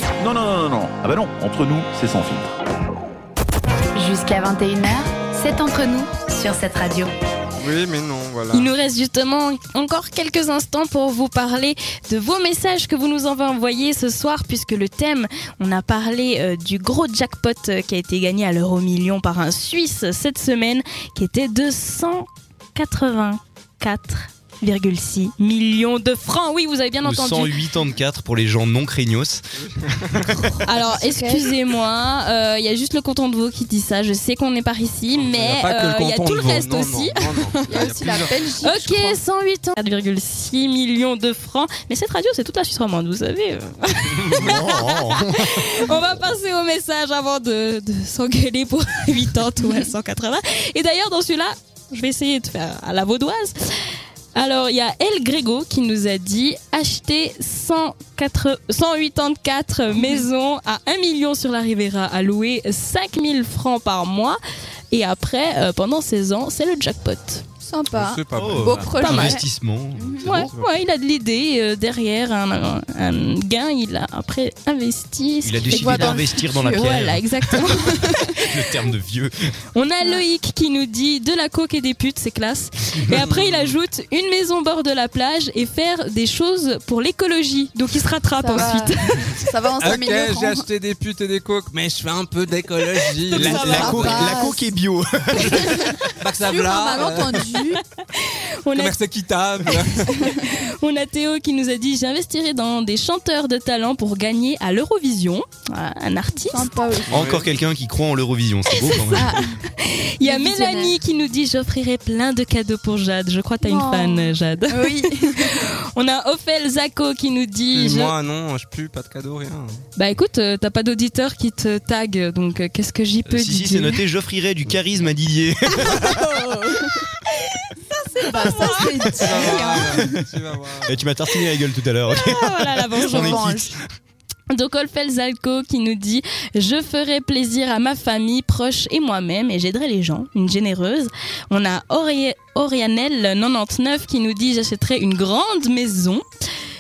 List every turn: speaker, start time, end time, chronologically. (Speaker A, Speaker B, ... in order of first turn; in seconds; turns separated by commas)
Speaker A: 0.2-2.5, Speaker B: 3.9-7.1, Speaker C: 7.6-8.7, Speaker D: 8.5-27.7, Speaker E: 27.0-29.4, Speaker C: 29.7-30.5, Speaker D: 30.6-38.0, Speaker F: 30.9-31.5, Speaker C: 35.1-38.4, Speaker F: 37.7-39.2, Speaker D: 38.6-64.4, Speaker C: 44.3-44.6, Speaker E: 44.4-45.4, Speaker F: 59.9-60.3, Speaker D: 64.9-67.5, Speaker F: 67.7-69.4, Speaker C: 67.9-69.0, Speaker E: 68.3-70.5, Speaker D: 68.9-69.4, Speaker F: 70.0-70.4, Speaker C: 70.2-70.8, Speaker D: 70.2-78.2, Speaker E: 75.4-79.3, Speaker F: 75.7-77.0, Speaker F: 77.5-78.4, Speaker D: 79.7-89.5, Speaker C: 83.1-83.8, Speaker F: 88.4-90.7, Speaker C: 89.7-94.4, Speaker D: 93.2-94.3, Speaker E: 93.3-96.1, Speaker F: 93.6-94.6, Speaker F: 95.6-97.8, Speaker C: 96.2-97.6, Speaker D: 98.1-99.0, Speaker C: 98.8-100.3, Speaker D: 99.6-106.7, Speaker F: 106.5-107.2, Speaker E: 107.1-109.4, Speaker C: 107.1-107.6, Speaker D: 108.7-118.2, Speaker F: 109.2-109.6, Speaker F: 110.2-111.0, Speaker F: 113.6-115.6, Speaker C: 117.7-119.8, Speaker D: 120.0-124.0, Speaker E: 123.3-126.4, Speaker F: 125.9-127.1, Speaker D: 127.5-130.0, Speaker F: 128.2-130.2, Speaker C: 128.9-131.1, Speaker E: 130.8-133.8, Speaker D: 132.1-133.7, Speaker F: 133.1-133.5, Speaker D: 134.5-146.2